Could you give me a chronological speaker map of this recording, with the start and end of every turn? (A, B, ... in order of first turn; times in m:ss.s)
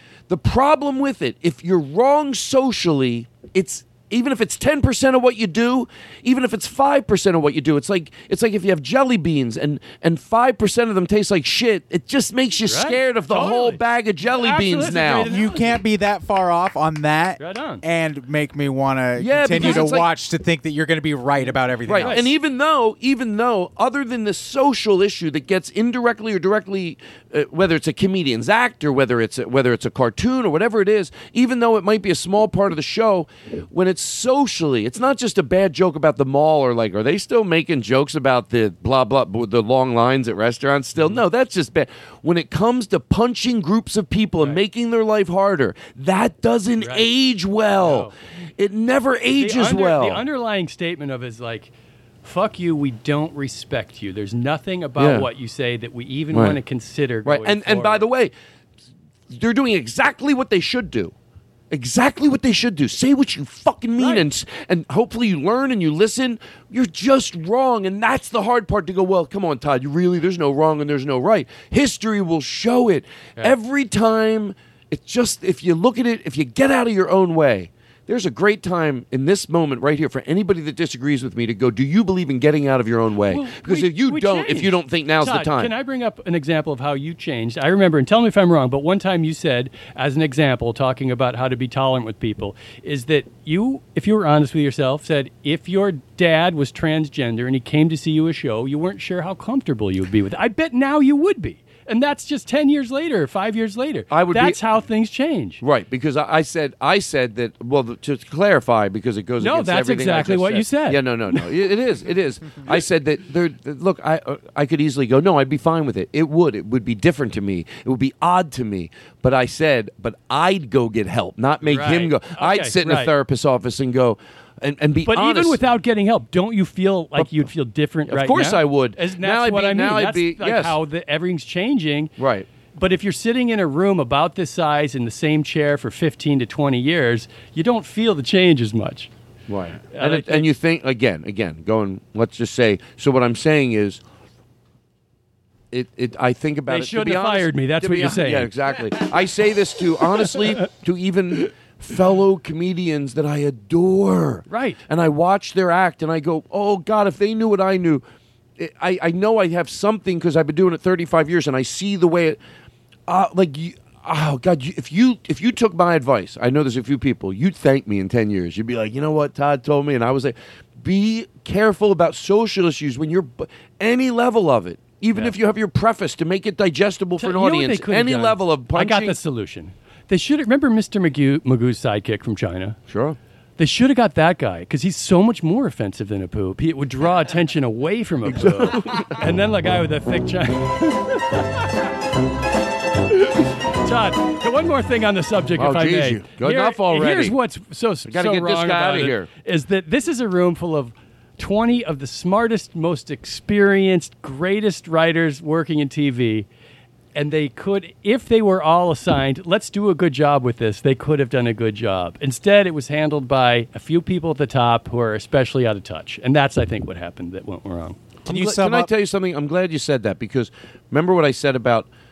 0:00.3-0:15.3 A
0:12.6-0:15.8 B
0:15.3-0:22.2 C
0:17.4-0:17.8 B
0:19.2-0:20.1 A
0:19.6-0:19.9 B
0:21.9-0:50.2 A
0:22.0-0:22.3 B
0:46.8-0:47.1 B
0:47.8-0:48.1 B
0:49.3-0:51.7 B
0:52.2-0:58.1 B
0:55.0-0:55.3 A
0:56.3-0:56.6 A
0:57.2-0:58.3 A
0:59.3-1:01.1 A
1:01.7-1:25.7 A
1:04.0-1:04.2 B
1:23.3-1:45.6 B
1:44.1-1:44.6 A
1:45.6-2:05.6 A
1:49.4-1:51.5 B
2:01.6-2:03.1 B
2:05.1-2:12.1 B
2:07.2-2:07.5 A
2:08.1-2:10.8 A
2:12.2-2:12.5 A
2:12.8-2:19.1 B
2:19.5-2:24.0 A
2:19.9-2:20.5 B
2:25.7-2:38.0 A
2:26.7-2:28.5 B
2:34.5-2:34.8 B
2:38.6-2:42.4 A
2:43.1-2:59.2 A
2:57.2-3:02.8 B
3:02.9-3:03.2 A
3:03.6-3:11.6 B
3:08.2-3:09.2 A
3:13.1-3:26.5 B
3:15.6-3:17.4 A
3:18.1-3:19.3 A
3:27.2-3:38.0 B
3:38.3-3:38.9 C
3:38.3-3:41.9 A